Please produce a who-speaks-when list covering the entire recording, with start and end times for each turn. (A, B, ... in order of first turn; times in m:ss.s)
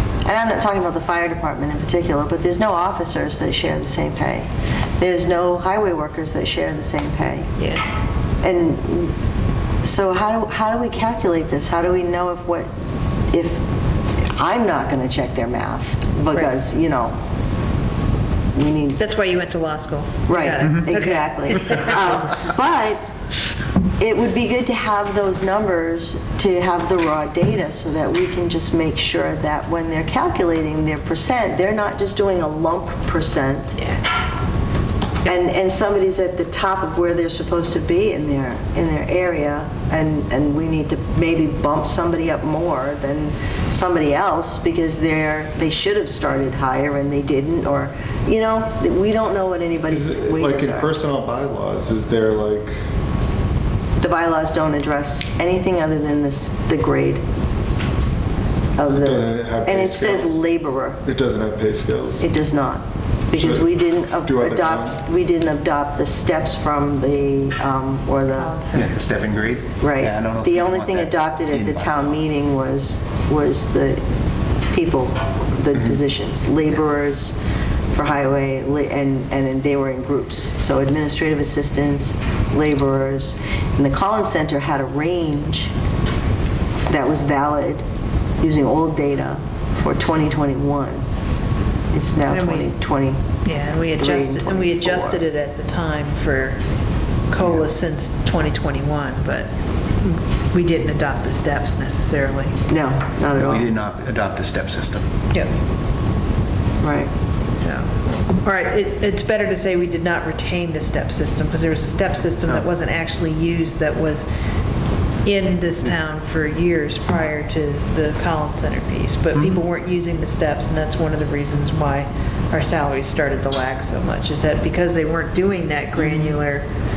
0:00.2-0:07.5 A
0:08.4-0:09.1 A
0:09.8-0:12.7 A
0:13.3-0:13.6 A
0:14.2-0:17.2 A
0:18.5-0:19.0 A
0:19.0-0:22.1 B
0:20.3-0:23.0 A
0:24.0-0:33.8 A
0:35.2-0:50.9 A
0:49.9-0:52.8 C
0:54.0-0:57.2 A
0:58.8-1:01.0 A
0:58.9-1:00.4 C
1:01.0-1:02.3 C
1:02.2-1:08.6 A
1:03.3-1:05.0 C
1:08.3-1:09.0 B
1:08.7-1:12.2 D
1:09.8-1:14.0 A
1:14.7-1:17.3 A
1:17.9-1:25.7 A
1:26.9-1:27.8 A
1:28.4-1:31.0 A
1:31.9-1:33.2 A
1:32.3-1:32.7 B
1:33.4-1:36.6 B
1:33.9-1:35.2 A
1:37.3-1:42.6 B
1:42.7-1:43.7 A
1:43.4-1:45.1 D
1:46.8-1:47.1 A
1:47.5-1:47.9 B
1:48.4-1:54.2 B
1:55.2-2:06.6 B
2:06.0-2:06.3 D